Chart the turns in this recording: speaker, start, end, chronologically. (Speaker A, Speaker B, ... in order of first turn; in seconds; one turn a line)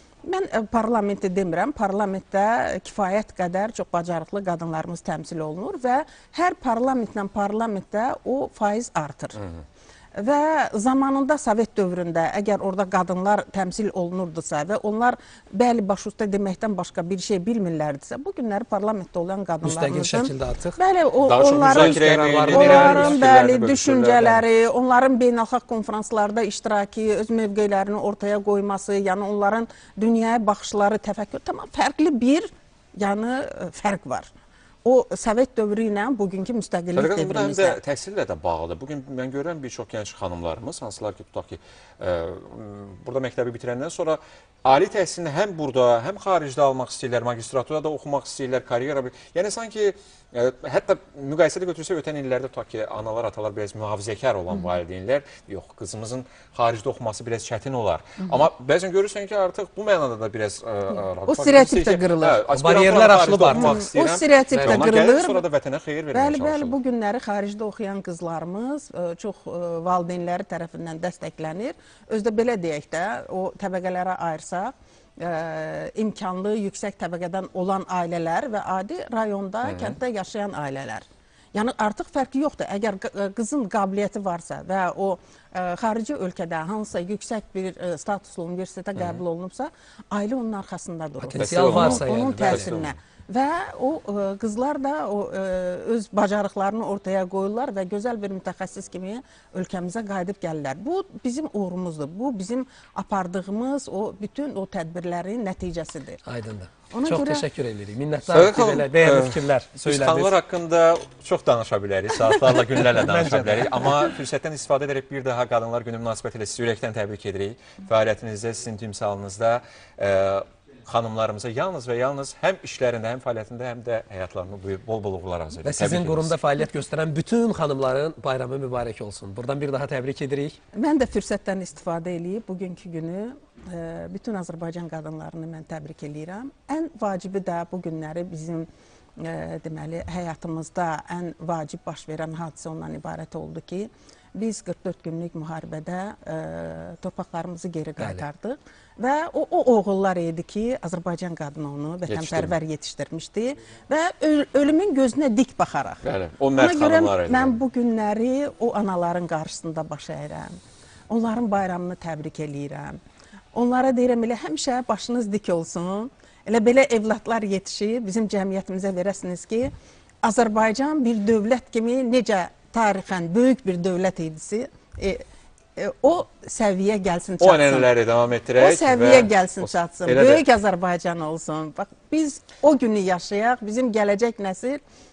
Speaker A: 0.2-9.5
Speaker A: 10.2-34.3
Speaker B: 19.6-20.8
Speaker C: 21.2-24.4
Speaker B: 21.7-23.3
Speaker A: 34.9-37.8
Speaker C: 36.9-66.8
Speaker A: 61.2-62.5
Speaker B: 62.5-63.9
Speaker A: 63.5-65.5
Speaker B: 64.5-65.0
Speaker A: 66.1-106.2
Speaker C: 79.7-80.0
Speaker C: 89.0-89.2
Speaker B: 91.2-92.7
Speaker C: 91.4-93.0
Speaker B: 106.3-110.3
Speaker A: 106.9-107.5
Speaker C: 108.3-126.3
Speaker B: 112.7-114.1
Speaker B: 125.7-130.6
Speaker A: 130.8-138.7
Speaker A: 139.2-156.0
Speaker B: 148.0-148.3
Speaker C: 152.1-152.5
Speaker C: 156.0-157.6
Speaker A: 156.6-160.6
Speaker A: 161.1-163.0
Speaker A: 163.5-169.7
Speaker A: 170.2-175.2
Speaker A: 175.8-177.9
Speaker C: 177.4-180.4
Speaker A: 178.6-184.8